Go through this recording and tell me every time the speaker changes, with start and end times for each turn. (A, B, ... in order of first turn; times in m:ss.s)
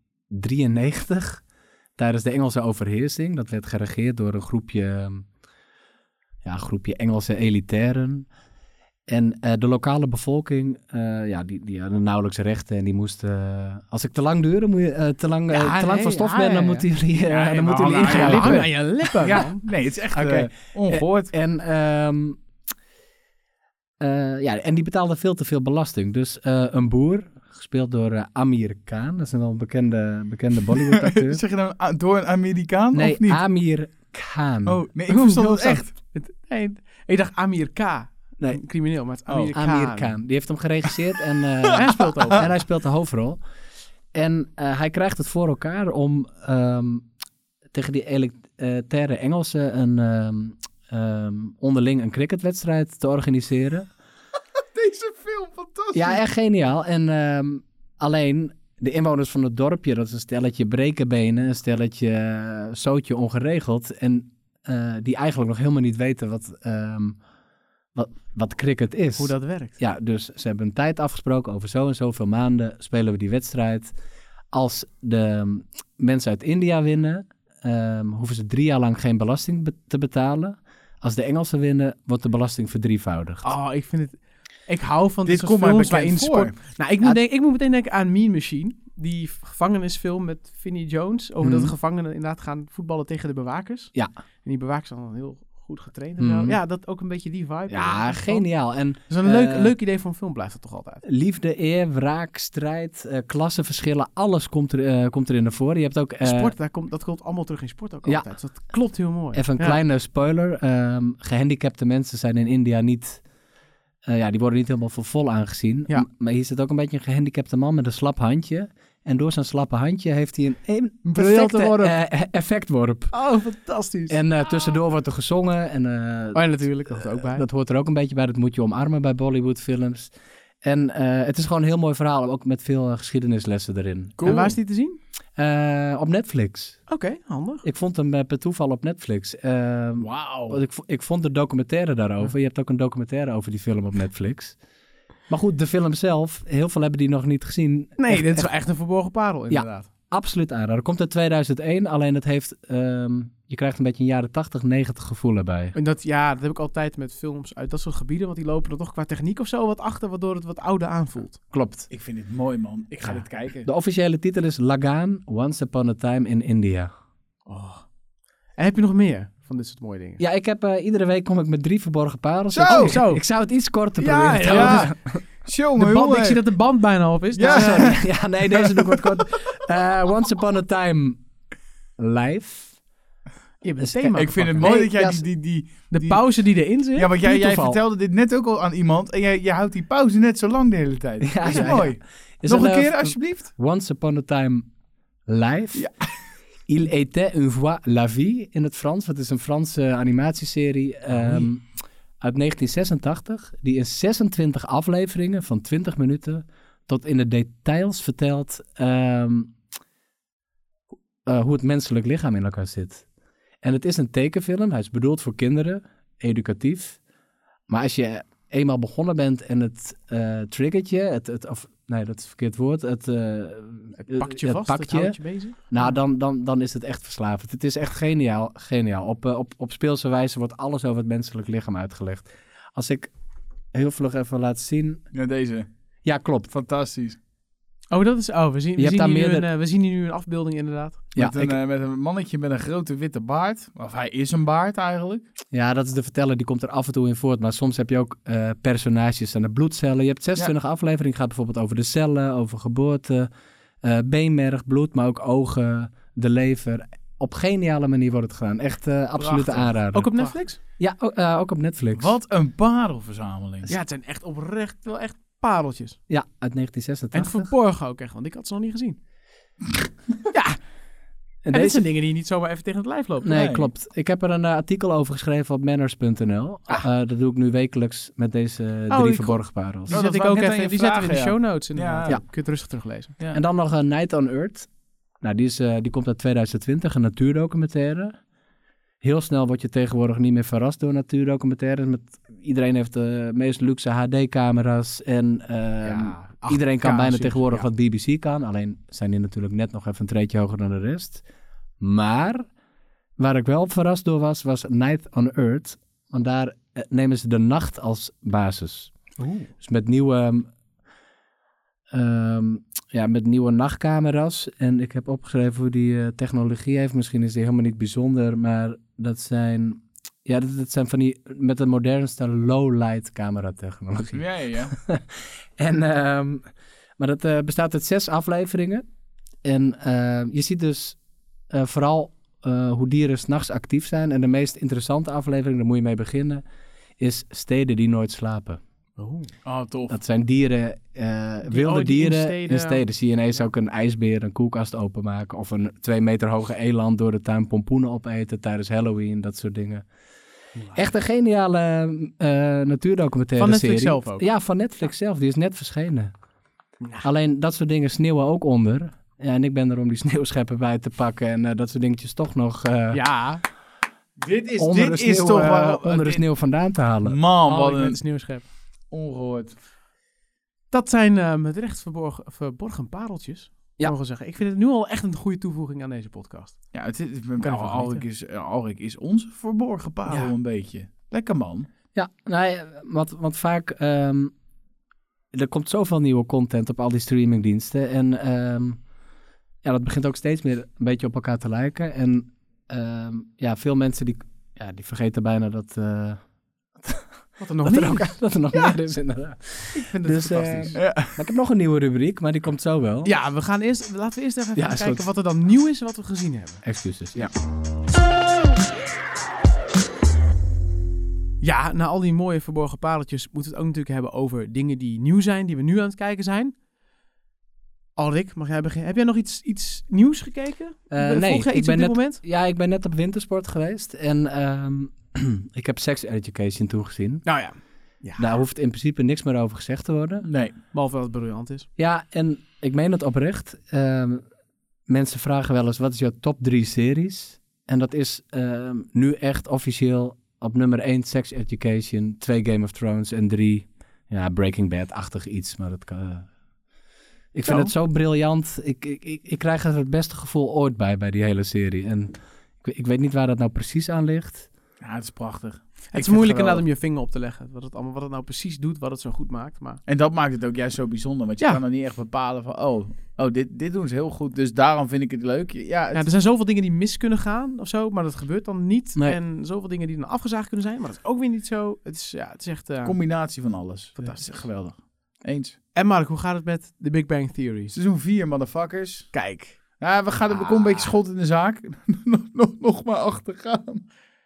0:00.3-0:01.4 A
0:02.0-0:05.3 A
0:06.4-0:08.3 A
0:09.1-0:18.7 A
0:15.5-0:16.9 B
0:17.2-0:21.3 C
0:18.0-0:19.6 B
0:20.1-0:22.4 A
0:24.0-0:31.4 A
0:30.8-0:33.4 C
0:32.9-0:34.8 A
0:34.7-0:35.9 C
0:35.1-0:40.1 B
0:39.5-0:43.4 A
0:41.7-0:42.5 B
0:44.1-0:47.1 A
0:47.7-0:53.9 A
0:54.7-0:56.2 C
0:55.9-1:07.2 A
1:08.0-1:13.9 A
1:09.2-1:09.8 B
1:14.5-1:23.5 A
1:23.4-1:38.5 B
1:25.3-1:26.6 C
1:31.4-1:31.7 A
1:36.2-1:36.6 A
1:37.7-1:39.7 A
1:39.1-1:41.0 B
1:41.0-1:46.5 A
1:46.2-1:49.8 B
1:49.3-1:53.2 A
1:54.1-2:03.1 A
2:01.0-2:02.0 B
2:03.1-2:04.2 B
2:04.1-2:10.1 A
2:06.3-2:07.4 B
2:10.6-2:14.4 A
2:14.2-2:14.6 C
2:14.2-2:15.0 B
2:15.4-2:16.8 A
2:16.9-2:17.6 B
2:17.6-2:24.6 A
2:20.0-2:20.6 C
2:25.3-2:28.5 A
2:28.0-2:29.9 B
2:29.5-2:35.8 A
2:35.8-2:41.4 B
2:41.5-2:41.9 A
2:41.9-2:43.7 C
2:43.6-2:46.9 A
2:47.5-2:47.9 B
2:48.6-2:50.2 B
2:50.2-2:55.2 A
2:52.5-2:53.0 C
2:52.7-2:53.2 B
2:54.0-2:55.0 B
2:54.4-2:54.9 C
2:55.4-2:56.4 C
2:55.8-2:58.0 B
2:57.4-2:59.1 C
2:57.4-3:01.2 A
3:02.0-3:02.8 A
3:03.6-3:04.9 B
3:03.8-3:05.2 A
3:04.1-3:06.3 C
3:05.9-3:07.1 B
3:07.0-3:13.5 C
3:07.2-3:07.8 A
3:11.2-3:14.7 A
3:11.5-3:11.8 B
3:15.3-3:15.9 A
3:16.7-3:21.6 A
3:22.2-3:29.6 A
3:31.2-3:33.0 A
3:33.6-3:37.0 A
3:37.7-3:53.1 A
3:44.0-3:46.0 B
3:53.7-3:55.0 A
3:55.1-3:55.7 C
3:56.0-3:56.5 A
3:56.5-3:57.2 C
3:57.9-4:01.0 B
3:58.8-3:59.5 A
4:01.2-4:01.6 A
4:01.2-4:05.3 C
4:05.5-4:13.3 A
4:13.8-4:22.1 A
4:19.2-4:19.7 C
4:19.9-4:20.6 B
4:21.9-4:23.7 C
4:23.7-4:26.0 B
4:26.1-4:27.5 A
4:27.1-4:29.0 B
4:30.3-4:30.6 B
4:31.4-4:31.8 A
4:31.5-4:33.5 B
4:33.2-4:39.9 A
4:33.3-4:33.7 C
4:38.9-4:43.2 B
4:39.9-4:42.3 C
4:43.3-4:44.7 A
4:45.2-4:48.2 A
4:49.0-5:01.2 A
4:55.8-4:57.7 B
5:01.8-5:02.5 A
5:03.2-5:08.9 A
5:09.2-5:09.5 B
5:09.6-5:10.5 A
5:11.9-5:28.8 A
5:24.1-5:24.8 C
5:29.4-5:31.0 A
5:31.5-5:36.4 A
5:37.0-5:38.6 A
5:39.0-5:39.3 B
5:39.4-5:40.0 C
5:39.9-5:49.8 A
5:41.5-5:42.8 B
5:50.6-5:50.8 B
5:50.7-5:56.1 A
5:53.4-5:54.2 B
5:56.8-5:57.1 B
5:57.0-6:03.0 A
6:02.9-6:03.4 B
6:04.2-6:06.2 C
6:04.6-6:07.2 A
6:07.0-6:08.0 C
6:07.5-6:08.4 B
6:08.9-6:09.6 C
6:10.7-6:16.6 B
6:16.7-6:21.7 C
6:17.4-6:18.0 B
6:20.1-6:20.3 B
6:21.9-6:24.3 A
6:25.3-6:28.8 A
6:29.6-6:36.2 A
6:36.8-6:37.1 A
6:37.4-6:38.2 B
6:37.6-6:43.1 A
6:39.7-6:40.8 B
6:40.8-6:41.1 C
6:43.0-6:46.6 B
6:44.6-6:45.0 A
6:46.6-6:47.3 A
6:51.4-6:56.5 B
6:58.0-7:02.2 B
7:00.9-7:07.3 A
7:07.2-7:08.2 B
7:08.2-7:10.3 A
7:10.2-7:10.6 C
7:10.7-7:11.7 B
7:11.8-7:14.2 A
7:14.9-7:26.3 A
7:27.3-7:34.5 A
7:27.4-7:27.7 B
7:34.8-7:36.6 C
7:35.9-7:39.8 B
7:39.9-7:46.1 C
7:45.9-7:53.0 B
7:52.8-7:55.6 C
7:54.0-7:54.3 B
7:55.7-7:57.7 B
7:57.7-7:59.1 C
7:59.1-7:59.6 B
7:59.8-8:03.9 C
8:00.3-8:01.0 B